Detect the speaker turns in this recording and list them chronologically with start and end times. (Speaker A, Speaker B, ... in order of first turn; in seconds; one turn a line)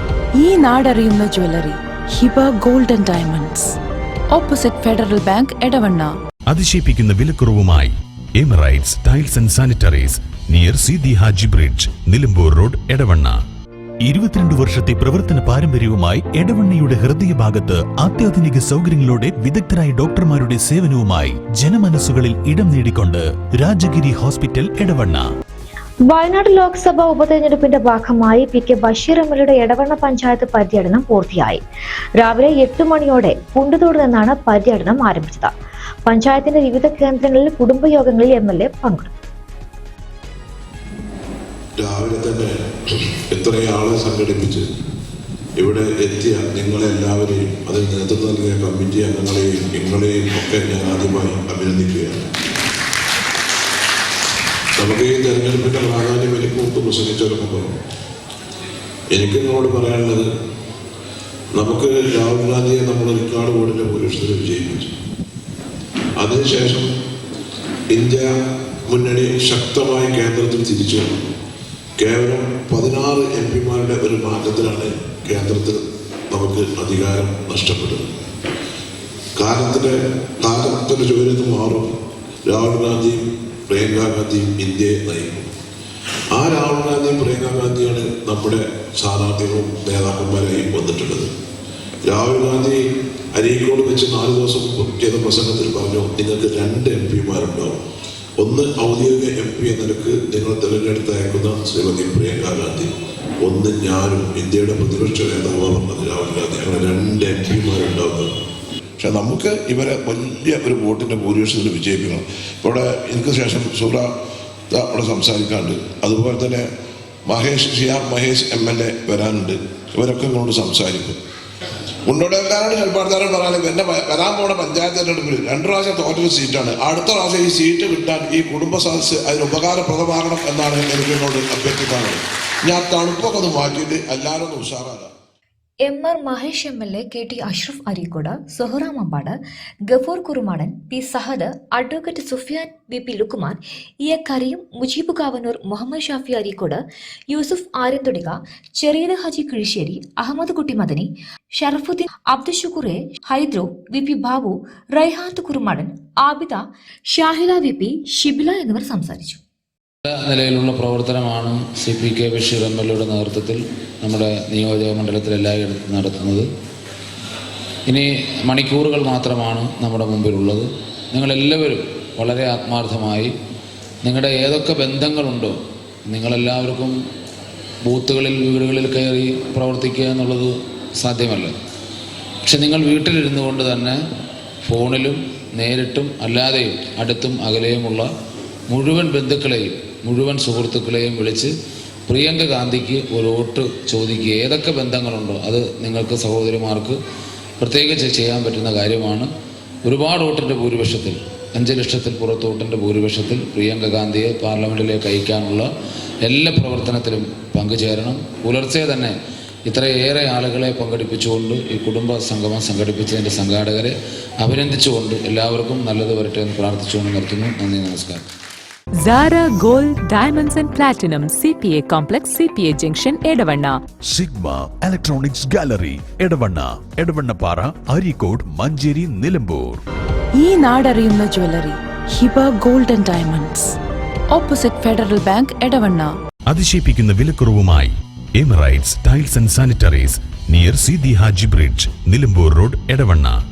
Speaker A: 0.4-3.8
Speaker A: 4.3-6.1
Speaker B: 6.5-13.4
Speaker B: 14.0-25.2
Speaker C: 26.1-31.6
Speaker C: 32.2-35.5
Speaker C: 36.1-39.1
Speaker D: 41.8-42.5
Speaker D: 43.3-44.7
Speaker D: 45.6-52.3
Speaker D: 54.8-57.7
Speaker D: 59.1-60.3
Speaker D: 61.5-64.9
Speaker D: 66.2-66.9
Speaker D: 67.9-68.3
Speaker D: 68.9-71.1
Speaker D: 72.0-78.2
Speaker D: 79.4-81.9
Speaker D: 82.5-85.5
Speaker D: 86.3-91.3
Speaker D: 92.0-92.8
Speaker D: 93.3-97.8
Speaker D: 98.4-102.9
Speaker D: 103.4-108.3
Speaker D: 109.0-114.1
Speaker D: 114.7-116.7
Speaker D: 117.3-121.2
Speaker D: 122.1-135.1
Speaker C: 135.8-139.4
Speaker C: 139.9-159.4
Speaker E: 160.1-166.5
Speaker E: 167.9-173.3
Speaker E: 174.0-177.0
Speaker E: 177.8-181.6
Speaker E: 182.4-184.0
Speaker E: 184.7-188.1
Speaker E: 188.7-191.5
Speaker E: 192.1-197.0
Speaker E: 197.6-199.3
Speaker E: 199.8-205.7
Speaker E: 206.2-209.2
Speaker E: 209.7-218.2
Speaker F: 219.0-223.8
Speaker B: 224.1-229.8
Speaker A: 230.4-233.7
Speaker A: 234.3-236.1
Speaker B: 236.5-243.4